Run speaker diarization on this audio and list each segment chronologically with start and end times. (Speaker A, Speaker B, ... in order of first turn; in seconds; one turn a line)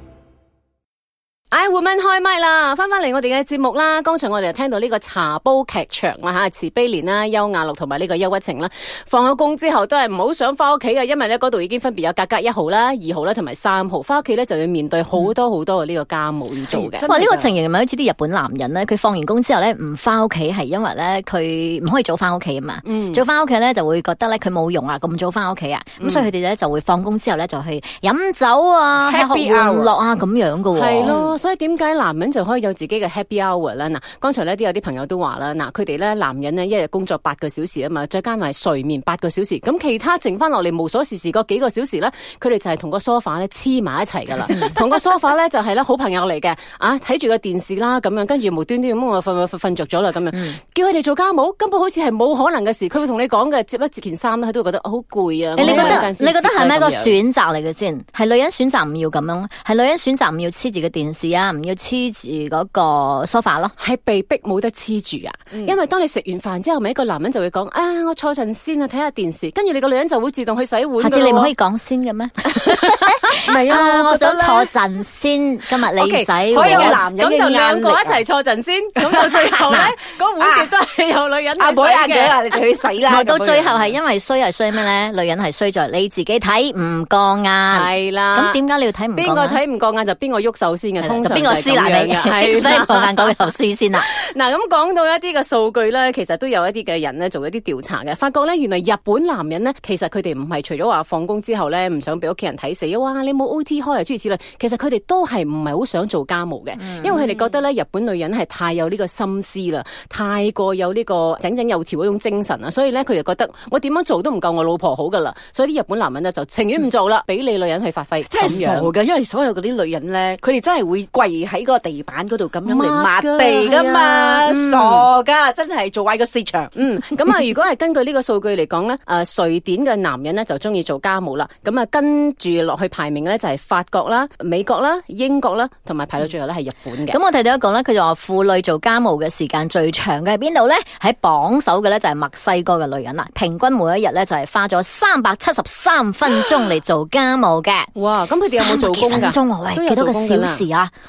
Speaker A: 1.5-17.1
Speaker B: 16.7-17.5
Speaker C: 17.0-31.1
Speaker A: 22.9-23.2
Speaker A: 26.0-26.3
Speaker B: 29.0-30.0
Speaker A: 30.7-57.2
Speaker B: 31.0-31.3
Speaker C: 50.3-50.6
Speaker C: 55.5-63.7
Speaker B: 55.6-56.0
Speaker A: 63.8-71.5
Speaker C: 71.0-77.0
Speaker A: 72.7-73.1
Speaker B: 73.4-74.7
Speaker A: 76.0-82.4
Speaker B: 76.5-78.2
Speaker B: 79.0-79.5
Speaker B: 80.4-80.7
Speaker B: 81.6-84.0
Speaker C: 83.1-89.6
Speaker A: 87.7-88.6
Speaker A: 89.2-93.3
Speaker C: 91.0-94.0
Speaker A: 94.0-118.9
Speaker C: 106.8-107.2
Speaker B: 107.1-107.5
Speaker B: 118.3-126.7
Speaker A: 122.7-125.0
Speaker A: 126.8-137.2
Speaker C: 137.1-147.9
Speaker A: 147.9-150.6
Speaker C: 148.5-150.9